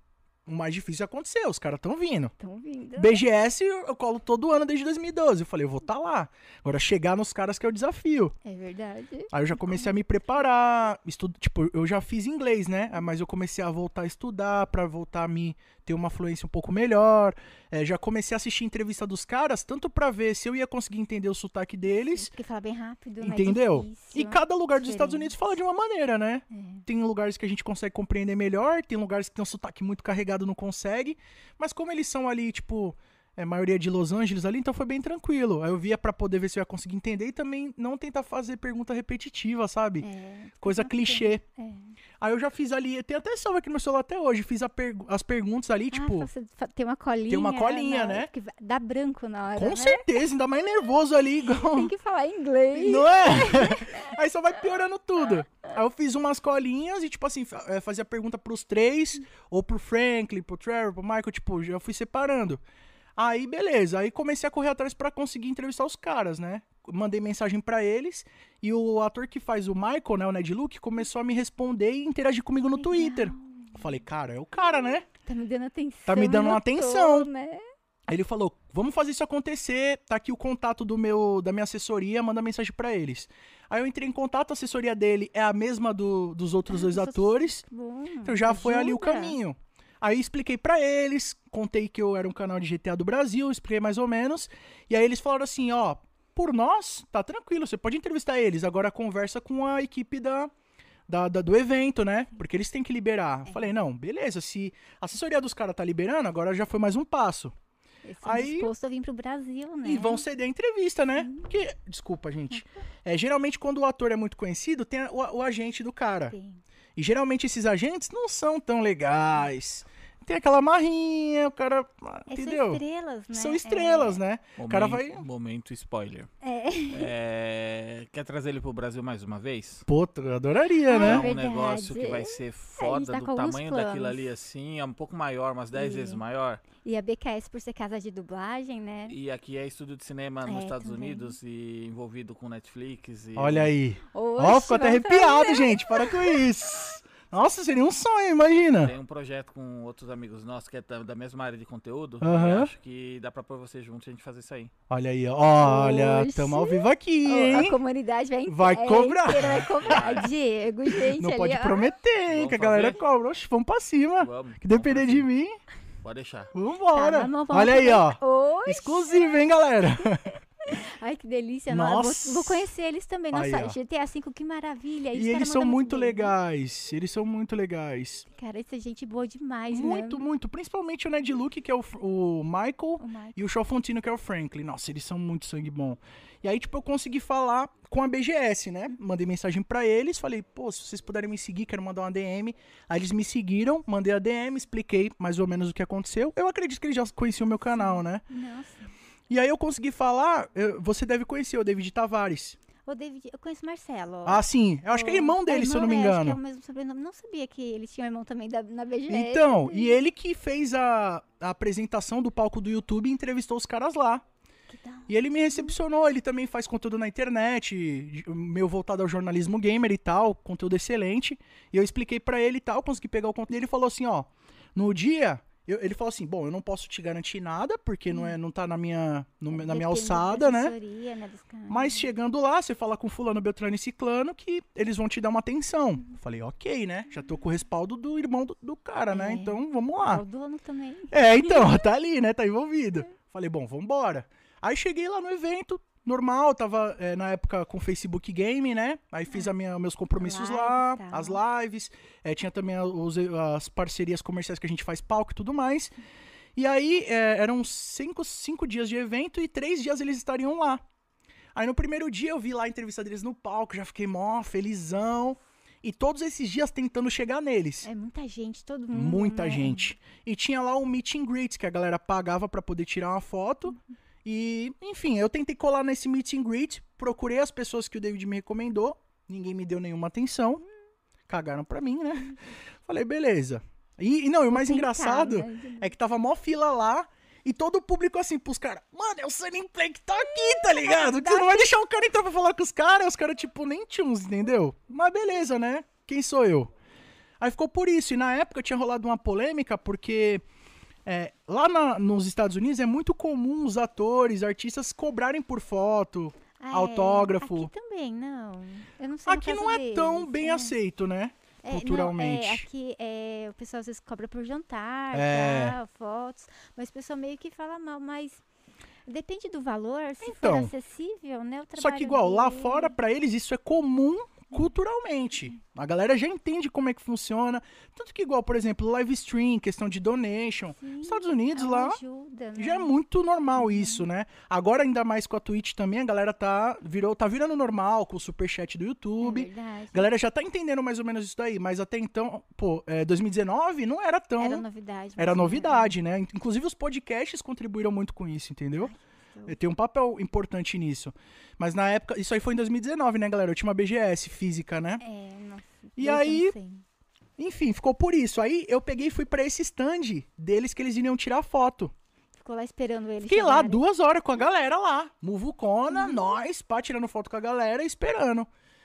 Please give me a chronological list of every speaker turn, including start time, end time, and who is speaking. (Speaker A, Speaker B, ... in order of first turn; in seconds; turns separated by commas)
Speaker A: 0.5-2.3, Speaker B: 2.4-3.2, Speaker A: 3.0-8.3, Speaker B: 8.4-10.0, Speaker A: 9.3-22.3, Speaker B: 22.1-25.4, Speaker A: 23.2-40.1, Speaker B: 26.5-26.8, Speaker B: 40.0-41.9, Speaker A: 40.6-41.4, Speaker A: 42.2-46.3, Speaker B: 45.9-50.1, Speaker A: 47.3-48.3, Speaker A: 49.6-51.9, Speaker B: 51.5-54.2, Speaker A: 52.7-62.6, Speaker B: 55.3-55.7, Speaker A: 63.2-75.1, Speaker B: 72.8-73.8, Speaker B: 74.6-77.6, Speaker A: 76.1-77.3, Speaker A: 78.1-87.6, Speaker B: 86.7-89.4, Speaker A: 88.2-100.5, Speaker A: 101.1-107.5, Speaker B: 108.0-110.2, Speaker A: 108.2-108.7, Speaker A: 109.8-116.4, Speaker B: 111.2-111.5, Speaker B: 116.3-116.6, Speaker A: 117.0-125.2, Speaker B: 122.3-124.2, Speaker C: 124.6-126.3, Speaker B: 126.4-127.1, Speaker C: 126.9-129.8, Speaker A: 129.9-131.3, Speaker B: 130.9-134.2, Speaker C: 130.9-136.6, Speaker B: 135.7-136.2, Speaker B: 136.8-139.2, Speaker C: 139.1-143.7, Speaker B: 140.5-141.4, Speaker A: 143.4-148.9, Speaker B: 144.1-146.4, Speaker C: 148.8-154.7, Speaker A: 152.2-152.7, Speaker A: 154.9-157.8, Speaker B: 155.6-161.9, Speaker A: 158.5-160.2, Speaker C: 159.6-160.3, Speaker A: 161.0-165.6, Speaker C: 162.3-163.0, Speaker C: 164.2-165.3, Speaker C: 166.0-166.5, Speaker A: 166.5-170.3, Speaker B: 166.9-169.4, Speaker B: 170.6-176.3, Speaker A: 171.7-172.7, Speaker A: 173.3-173.8, Speaker A: 175.1-178.2, Speaker B: 178.3-180.3, Speaker A: 179.7-198.2, Speaker B: 183.0-183.4, Speaker B: 197.7-198.9, Speaker A: 199.3-202.6, Speaker B: 202.8-210.0, Speaker A: 204.2-206.4, Speaker A: 209.1-214.2, Speaker B: 214.7-215.8, Speaker A: 215.1-230.8, Speaker B: 228.1-228.4, Speaker B: 229.5-232.1, Speaker A: 231.7-240.2, Speaker B: 239.1-241.8, Speaker A: 241.1-255.9, Speaker B: 250.2-251.4, Speaker A: 256.6-260.8, Speaker A: 261.6-267.9, Speaker B: 267.8-269.9, Speaker A: 268.9-280.6, Speaker A: 281.3-296.7, Speaker B: 284.5-285.9, Speaker B: 290.4-291.7, Speaker A: 297.4-300.4, Speaker A: 301.1-307.7, Speaker B: 306.6-310.8, Speaker A: 309.3-312.7, Speaker B: 311.6-318.4, Speaker A: 315.1-315.8, Speaker B: 319.1-323.0, Speaker A: 320.2-320.7, Speaker A: 321.8-332.0, Speaker B: 330.7-332.9, Speaker A: 332.6-344.6, Speaker B: 333.6-334.1, Speaker B: 339.2-340.1, Speaker B: 344.4-345.9, Speaker A: 345.2-348.9, Speaker B: 348.8-349.6, Speaker A: 349.5-355.0, Speaker B: 355.0-356.8, Speaker A: 356.0-356.6, Speaker A: 357.4-361.9, Speaker B: 362.4-363.8, Speaker A: 363.3-368.5, Speaker B: 365.9-366.3